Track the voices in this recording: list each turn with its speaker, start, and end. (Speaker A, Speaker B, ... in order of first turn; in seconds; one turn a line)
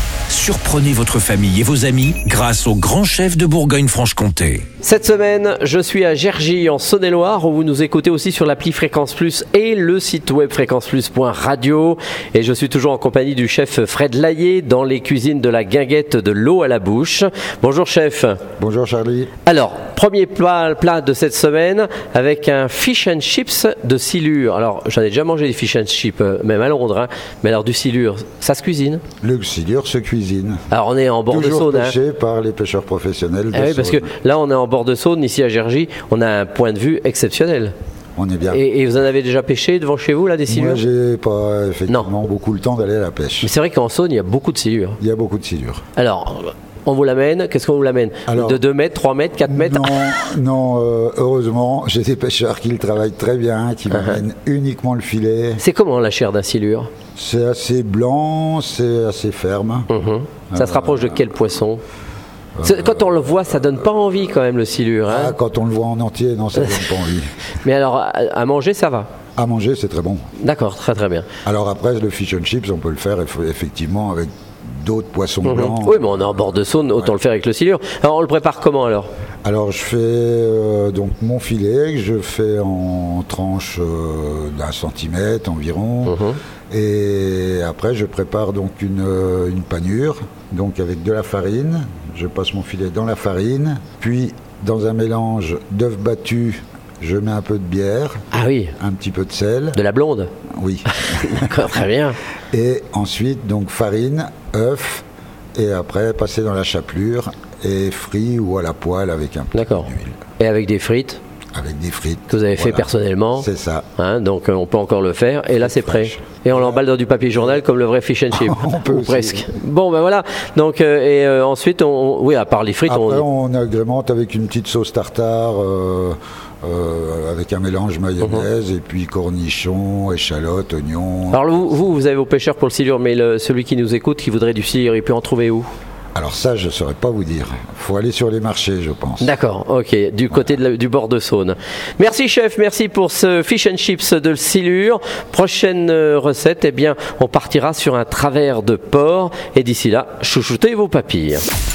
Speaker A: 0.3-4.7
Speaker B: 4.8-18.4
Speaker C: 18.6-19.3
Speaker B: 19.4-29.0
Speaker C: 29.2-30.6
Speaker B: 30.7-31.9
Speaker C: 31.3-34.0
Speaker B: 33.5-37.7
Speaker C: 38.1-38.6
Speaker B: 38.5-40.8
Speaker C: 40.5-43.5
Speaker B: 43.4-45.0
Speaker C: 45.0-45.8
Speaker B: 46.0-50.1
Speaker C: 48.3-48.6
Speaker C: 49.4-55.6
Speaker B: 53.9-54.2
Speaker B: 55.6-56.9
Speaker C: 57.1-59.9
Speaker B: 59.9-61.8
Speaker C: 60.5-61.1
Speaker C: 62.5-63.2
Speaker B: 62.6-65.3
Speaker C: 65.1-67.3
Speaker B: 66.5-66.8
Speaker B: 67.6-69.1
Speaker C: 69.4-70.2
Speaker B: 70.4-71.3
Speaker C: 71.4-77.1
Speaker B: 75.4-79.1
Speaker C: 79.4-98.2
Speaker B: 86.0-86.4
Speaker B: 98.3-98.7
Speaker C: 98.8-99.8
Speaker B: 99.7-100.3
Speaker C: 100.5-101.7
Speaker B: 101.0-102.2
Speaker C: 102.5-105.0
Speaker C: 105.5-110.2
Speaker B: 109.5-111.2
Speaker C: 111.5-113.8
Speaker B: 112.3-123.2
Speaker C: 115.5-116.8
Speaker C: 118.3-119.5
Speaker C: 122.9-131.4
Speaker B: 131.3-135.7
Speaker C: 136.1-139.3
Speaker B: 139.2-151.4